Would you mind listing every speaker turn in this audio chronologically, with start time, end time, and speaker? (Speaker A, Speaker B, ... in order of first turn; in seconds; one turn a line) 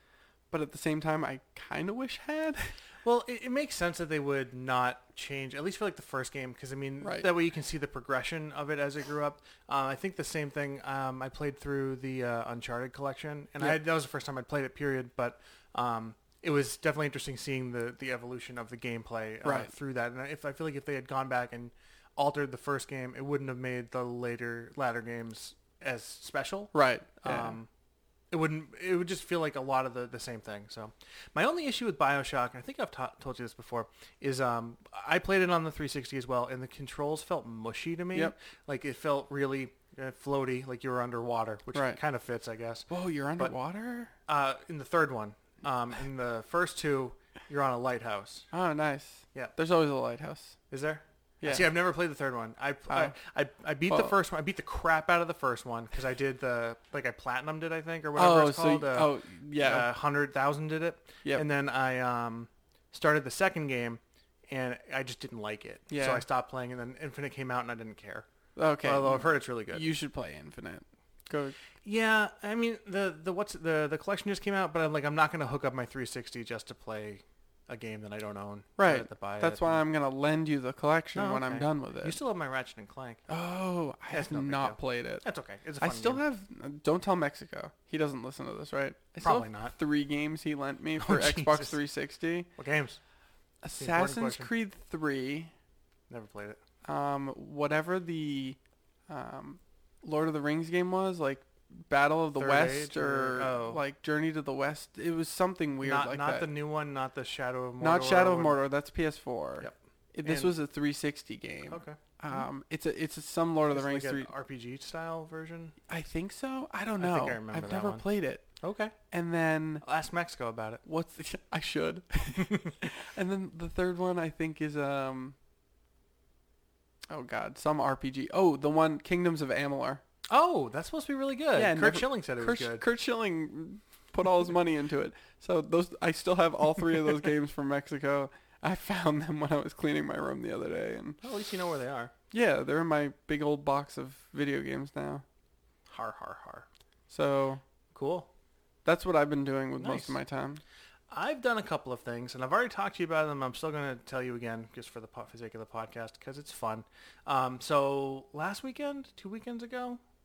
Speaker A: 0.5-2.7
Speaker B: 3.0-27.7
Speaker A: 7.0-7.3
Speaker A: 19.4-19.7
Speaker A: 26.7-27.6
Speaker B: 28.3-42.9
Speaker A: 41.7-42.0
Speaker A: 42.9-44.1
Speaker B: 44.3-48.5
Speaker A: 48.5-50.6
Speaker B: 50.7-68.3
Speaker A: 51.4-51.7
Speaker A: 52.9-53.1
Speaker A: 53.9-54.1
Speaker A: 58.1-59.9
Speaker A: 65.9-66.2
Speaker A: 68.5-71.6
Speaker B: 68.8-69.8
Speaker B: 71.8-79.8
Speaker A: 78.8-82.2
Speaker B: 81.1-83.2
Speaker A: 83.3-85.2
Speaker B: 84.1-86.2
Speaker A: 85.8-92.5
Speaker B: 89.2-89.7
Speaker B: 91.0-91.8
Speaker B: 92.5-93.0
Speaker A: 93.6-95.5
Speaker B: 93.8-94.5
Speaker B: 96.1-96.6
Speaker A: 96.8-98.6
Speaker A: 99.1-106.5
Speaker B: 102.3-103.8
Speaker B: 105.8-108.6
Speaker A: 107.8-114.3
Speaker B: 109.6-110.5
Speaker B: 111.7-112.5
Speaker B: 113.7-115.8
Speaker A: 115.9-118.5
Speaker B: 117.0-118.0
Speaker B: 118.6-118.9
Speaker A: 119.1-119.8
Speaker B: 119.8-120.8
Speaker A: 120.8-125.3
Speaker B: 122.4-122.7
Speaker A: 127.1-130.0
Speaker B: 130.3-132.8
Speaker A: 131.6-141.2
Speaker B: 141.2-142.1
Speaker A: 142.3-145.2
Speaker B: 145.9-146.7
Speaker A: 147.1-147.6
Speaker B: 147.9-148.3
Speaker A: 148.8-150.6
Speaker B: 149.8-150.2
Speaker B: 151.1-160.0